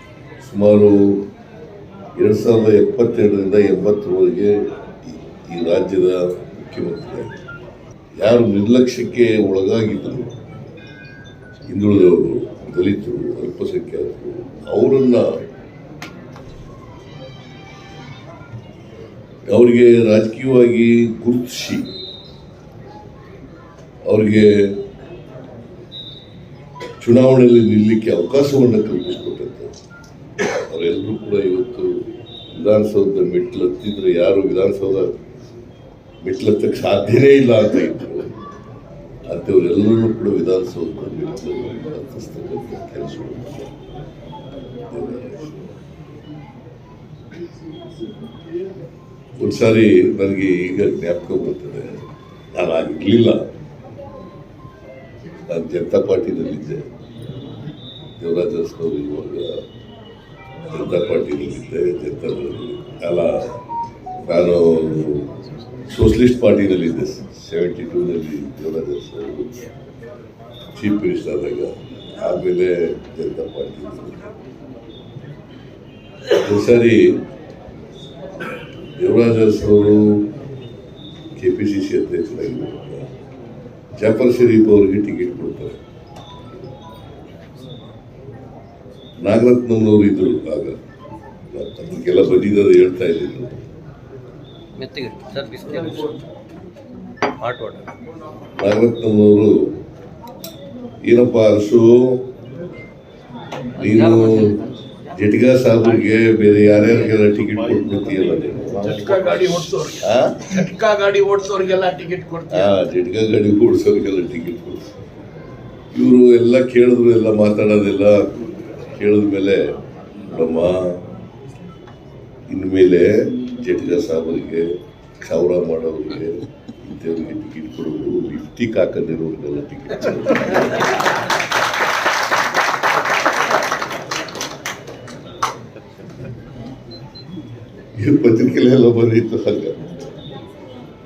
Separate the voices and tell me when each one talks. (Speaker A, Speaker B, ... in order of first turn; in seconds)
Speaker A: 0.4-1.2, 2.2-7.3, 8.2-10.4, 11.7-15.4, 19.4-21.9, 24.0-24.8, 27.0-29.7, 30.4-35.1, 36.2-38.3, 39.2-43.8, 44.8-45.7, 49.4-53.5, 55.5-56.9, 58.2-59.6, 60.7-63.6, 64.2-69.7, 70.7-74.3, 76.3-77.2, 79.0-80.3, 81.3-83.1, 84.0-85.8, 89.2-90.8, 91.5-93.6, 98.5-99.7, 101.0-102.2, 103.8-104.6, 105.1-110.5, 112.5-114.9, 115.9-121.1, 122.5-131.1, 137.9-139.9
Speaker B: 94.8-96.2, 97.4-97.9, 103.8-104.7
Speaker C: 108.8-112.7